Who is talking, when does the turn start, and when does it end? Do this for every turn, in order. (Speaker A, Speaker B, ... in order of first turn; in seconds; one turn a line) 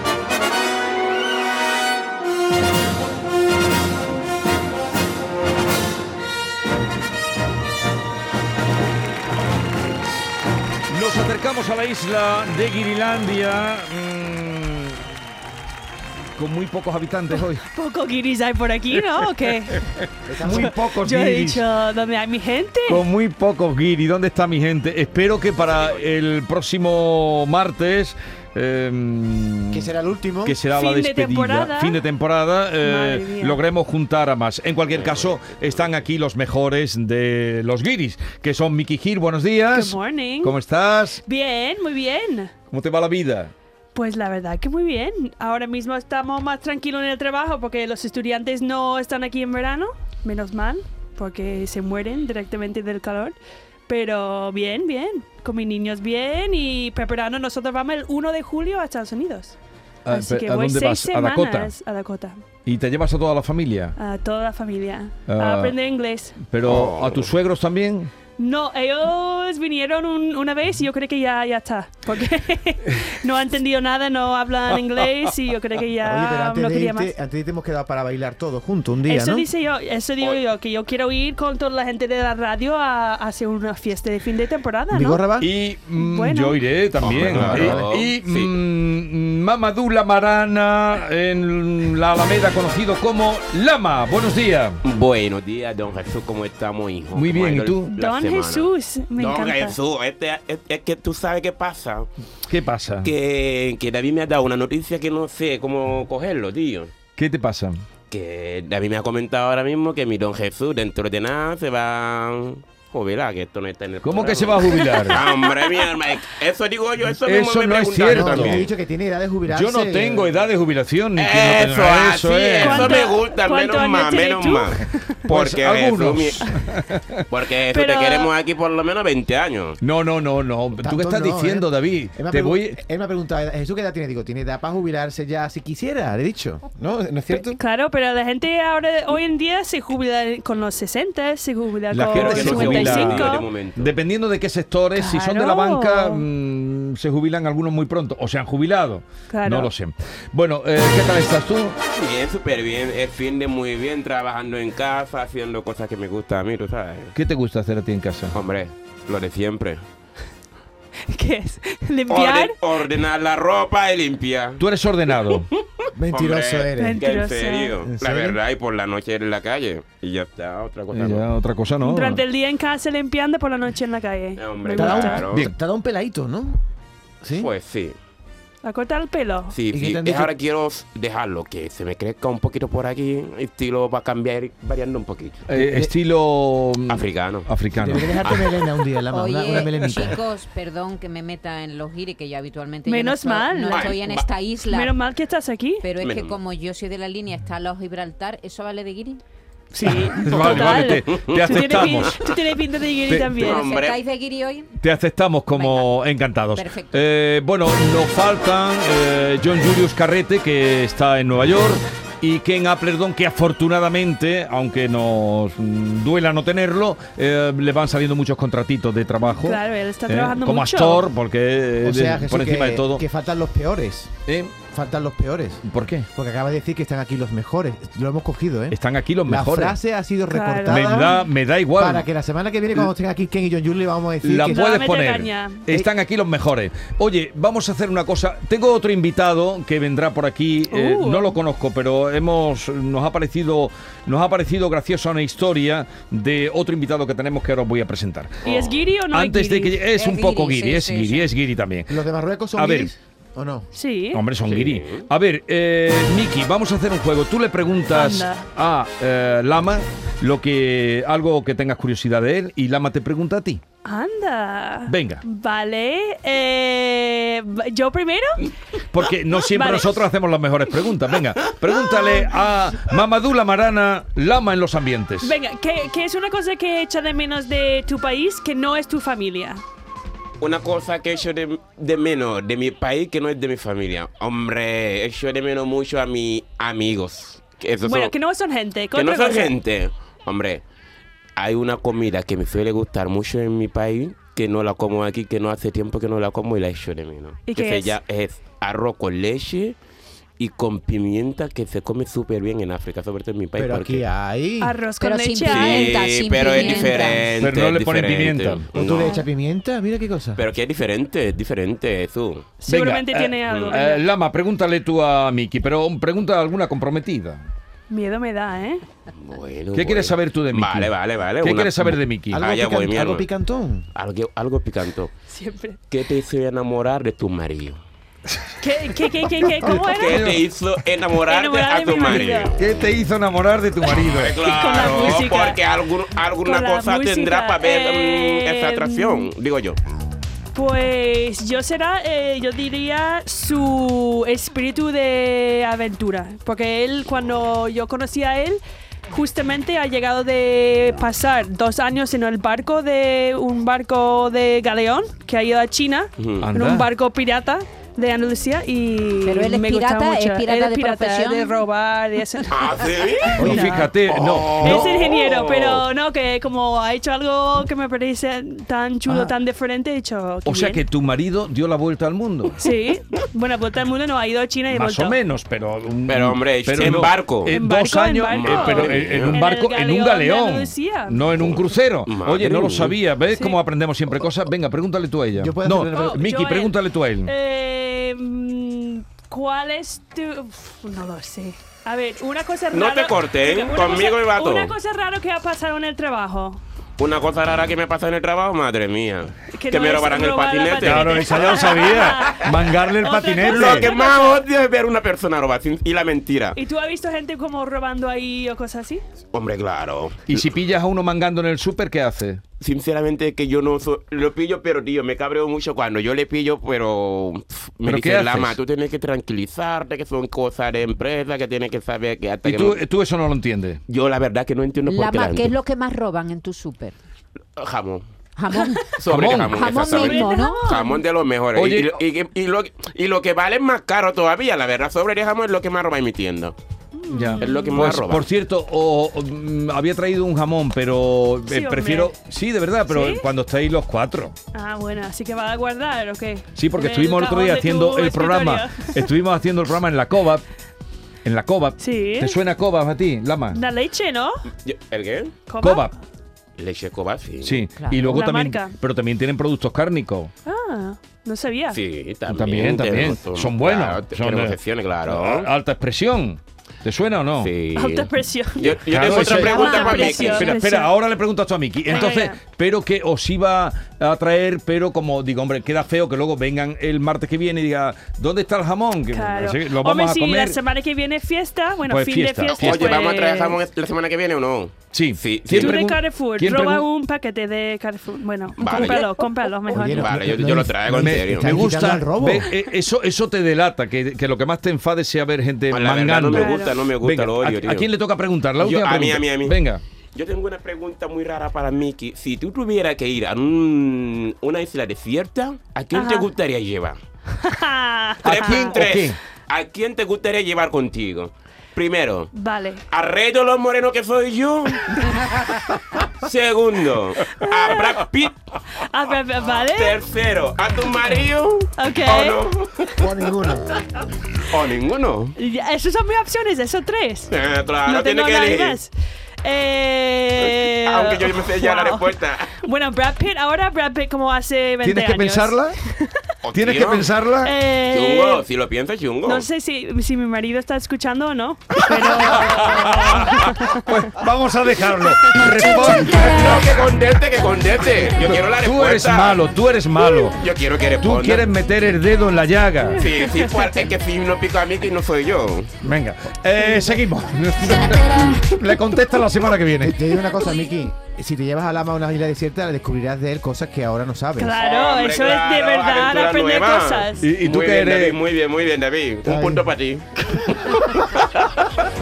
Speaker A: 10.9-15.0
Speaker A: 16.4-17.6
Speaker B: 17.4-23.0
Speaker C: 20.2-20.7
Speaker A: 20.4-21.6
Speaker A: 22.9-29.9
Speaker D: 25.6-26.1
Speaker C: 29.7-30.6
Speaker A: 30.4-41.2
Speaker B: 30.7-32.0
Speaker B: 32.8-33.6
Speaker D: 34.9-36.1
Speaker B: 39.7-40.5
Speaker B: 41.2-42.5
Speaker A: 42.7-43.5
Speaker B: 43.9-53.4
Speaker B: 53.9-59.5
Speaker A: 60.0-61.7
Speaker B: 60.1-62.4
Speaker A: 62.6-64.0
Speaker B: 64.0-66.4
Speaker A: 65.3-65.8
Speaker A: 66.4-68.1
Speaker D: 66.6-67.3
Speaker B: 68.4-77.1
Speaker C: 76.0-79.5
Speaker B: 79.1-85.2
Speaker C: 84.9-85.5
Speaker A: 85.4-94.8
Speaker B: 85.9-86.6
Speaker D: 87.0-88.5
Speaker C: 87.0-88.0
Speaker D: 94.8-102.1
Speaker A: 97.1-97.9
Speaker B: 97.9-99.8
Speaker A: 102.5-103.1
Speaker D: 103.0-106.9
Speaker A: 107.2-107.8
Speaker D: 108.1-118.7
Speaker A: 114.0-115.2
Speaker B: 114.8-115.9
Speaker A: 117.2-118.7
Speaker C: 118.1-120.4
Speaker A: 119.5-123.0
Speaker D: 121.2-126.5
Speaker B: 122.6-125.2
Speaker A: 124.8-127.2
Speaker D: 127.3-129.8
Speaker B: 127.7-128.3
Speaker A: 129.8-132.8
Speaker C: 130.8-137.6
Speaker B: 137.3-143.5
Speaker A: 141.9-151.8
Speaker D: 142.1-144.0
Speaker B: 144.9-146.3
Speaker B: 149.3-149.7
Speaker D: 151.9-157.1
Speaker A: 157.1-158.3
Speaker D: 158.3-159.8
Speaker B: 161.1-162.6
Speaker D: 162.1-171.3
Speaker A: 164.6-165.5
Speaker C: 165.9-167.1
Speaker B: 166.8-167.8
Speaker C: 167.8-168.4
Speaker A: 170.9-172.2
Speaker B: 171.8-175.3
Speaker D: 174.4-175.4
Speaker C: 174.8-176.6
Speaker A: 175.3-175.5
Speaker C: 177.2-177.5
Speaker D: 177.3-177.9
Speaker B: 178.6-179.6
Speaker D: 179.5-185.4
Speaker C: 179.7-180.3
Speaker A: 185.5-188.5
Speaker C: 185.5-185.9
Speaker D: 186.9-187.5
Speaker C: 187.7-190.2
Speaker E: 189.1-195.0
Speaker B: 192.8-194.0
Speaker D: 193.7-194.3
Speaker B: 194.6-195.9
Speaker E: 195.8-199.2
Speaker D: 196.0-196.4
Speaker B: 199.7-203.6
Speaker A: 199.8-202.2
Speaker D: 200.3-202.4
Speaker A: 203.1-203.6
Speaker D: 203.4-204.0
Speaker E: 203.4-204.7
Speaker A: 204.8-223.0
Speaker E: 205.5-206.0
Speaker E: 206.5-207.1
Speaker B: 219.4-221.1
Speaker C: 221.8-224.1
Speaker A: 224.3-224.5
Speaker C: 224.6-231.2
Speaker A: 225.6-226.1
Speaker A: 228.7-229.8
Speaker B: 230.3-231.2
Speaker A: 230.7-232.1
Speaker C: 231.7-234.7
Speaker A: 234.2-248.4
Speaker B: 234.4-235.7
Speaker B: 240.7-241.4
Speaker D: 248.4-248.8
Speaker B: 248.4-249.8
Speaker A: 249.1-252.0
Speaker E: 249.9-251.3
Speaker C: 251.9-253.7
Speaker A: 252.6-252.9
Speaker B: 253.7-254.2
Speaker A: 254.1-263.6
Speaker D: 254.4-255.1
Speaker B: 257.9-258.5
Speaker B: 263.8-268.5
Speaker A: 264.9-265.2
Speaker A: 268.9-275.4
Speaker B: 269.5-270.0
Speaker B: 275.2-279.6
Speaker D: 280.4-288.1
Speaker B: 287.8-289.6
Speaker D: 288.9-290.6
Speaker D: 291.4-299.8
Speaker B: 297.5-298.0
Speaker D: 300.4-304.1
Speaker C: 303.6-304.8
Speaker B: 304.6-305.9
Speaker E: 305.0-307.4
Speaker D: 305.4-309.2
Speaker B: 306.6-307.2
Speaker A: 307.2-308.7
Speaker C: 308.7-310.4
Speaker B: 309.0-309.2
Speaker D: 310.4-312.6
Speaker B: 312.6-314.0
Speaker A: 312.7-317.5
Speaker D: 313.5-313.8
Speaker B: 317.9-318.8
Speaker D: 319.2-323.3
Speaker A: 319.7-322.4
Speaker C: 322.3-323.9
Speaker D: 323.9-325.1
Speaker B: 325.3-325.8
Speaker D: 325.9-327.8
Speaker A: 328.3-328.7
Speaker B: 328.6-330.2
Speaker A: 329.6-330.4
Speaker D: 329.8-332.6
Speaker B: 331.2-332.6
Speaker A: 332.6-334.4
Speaker D: 334.1-339.8
Speaker B: 334.4-335.6
Speaker B: 336.4-339.3
Speaker B: 340.5-363.9
Speaker D: 356.2-356.5
Speaker A: 356.4-356.9
Speaker E: 359.2-361.6
Speaker D: 362.5-363.4
Speaker C: 363.4-363.9
Speaker A: 363.4-364.9
Speaker D: 364.0-365.8
Speaker B: 364.6-370.8
Speaker A: 369.1-369.4
Speaker A: 370.4-372.6
Speaker B: 372.6-375.2
Speaker A: 374.7-387.3
Speaker D: 376.1-377.6
Speaker B: 377.4-381.2
Speaker D: 378.3-379.4
Speaker D: 381.4-383.0
Speaker C: 385.4-386.2
Speaker B: 385.9-396.6
Speaker D: 392.7-394.7
Speaker D: 397.0-402.1
Speaker B: 399.5-404.4
Speaker A: 400.8-403.9
Speaker D: 403.5-406.6
Speaker B: 406.6-409.0
Speaker D: 409.3-410.2
Speaker A: 410.3-412.4
Speaker D: 412.6-422.8
Speaker A: 417.8-418.6
Speaker A: 422.4-423.8
Speaker D: 423.9-425.6
Speaker E: 424.9-426.9
Speaker D: 427.6-428.0
Speaker E: 428.4-430.8
Speaker B: 428.5-429.0
Speaker D: 428.9-436.6
Speaker A: 429.0-429.7
Speaker B: 429.9-431.0
Speaker A: 431.5-431.9
Speaker B: 436.9-437.9
Speaker A: 437.1-444.3
Speaker D: 437.4-438.3
Speaker B: 441.5-442.1
Speaker B: 442.9-443.2
Speaker B: 444.5-449.1
Speaker A: 446.5-450.4
Speaker A: 451.2-453.6
Speaker B: 451.8-452.4
Speaker B: 453.5-454.5
Speaker D: 454.6-455.4
Speaker B: 455.4-455.9
Speaker A: 455.6-455.9
Speaker D: 456.6-457.6
Speaker A: 457.4-460.3
Speaker E: 457.7-458.2
Speaker B: 458.1-458.8
Speaker B: 460.4-461.8
Speaker D: 461.7-465.5
Speaker A: 462.3-467.5
Speaker D: 467.4-470.5
Speaker B: 467.7-470.9
Speaker A: 468.8-480.6
Speaker B: 471.9-472.4
Speaker B: 479.1-483.6
Speaker A: 481.9-483.1
Speaker D: 482.5-485.8
Speaker A: 484.9-486.9
Speaker B: 485.6-490.1
Speaker D: 488.6-489.1
Speaker C: 489.7-492.5
Speaker D: 489.9-491.6
Speaker A: 490.9-499.8
Speaker D: 495.7-497.9
Speaker B: 496.3-496.8
Speaker D: 498.6-499.6
Speaker D: 500.1-507.0
Speaker B: 505.9-506.3
Speaker B: 507.4-508.8
Speaker A: 508.2-509.2
Speaker D: 508.3-512.3
Speaker B: 512.3-512.8
Speaker D: 512.9-515.0
Speaker D: 516.2-518.4
Speaker B: 517.3-518.0
Speaker B: 518.7-520.0
Speaker D: 519.6-522.9
Speaker B: 521.8-522.4
Speaker C: 523.0-523.7
Speaker D: 524.5-525.3
Speaker B: 525.4-527.3
Speaker D: 527.3-528.8
Speaker B: 527.8-528.9
Speaker B: 529.4-536.2
Speaker D: 530.4-532.6
Speaker A: 534.8-535.8
Speaker D: 536.4-537.1
Speaker A: 536.5-537.5
Speaker B: 537.4-538.5
Speaker D: 537.9-539.5
Speaker B: 539.2-544.1
Speaker A: 541.9-546.7
Speaker D: 542.6-543.2
Speaker B: 545.7-546.2
Speaker D: 546.0-549.4
Speaker A: 548.3-550.4
Speaker D: 550.4-551.5
Speaker A: 551.0-553.0
Speaker D: 553.0-555.7
Speaker B: 553.1-553.5
Speaker A: 555.8-560.0
Speaker C: 559.8-564.6
Speaker B: 564.4-567.2
Speaker D: 564.6-571.4
Speaker A: 567.2-568.2
Speaker C: 569.2-569.7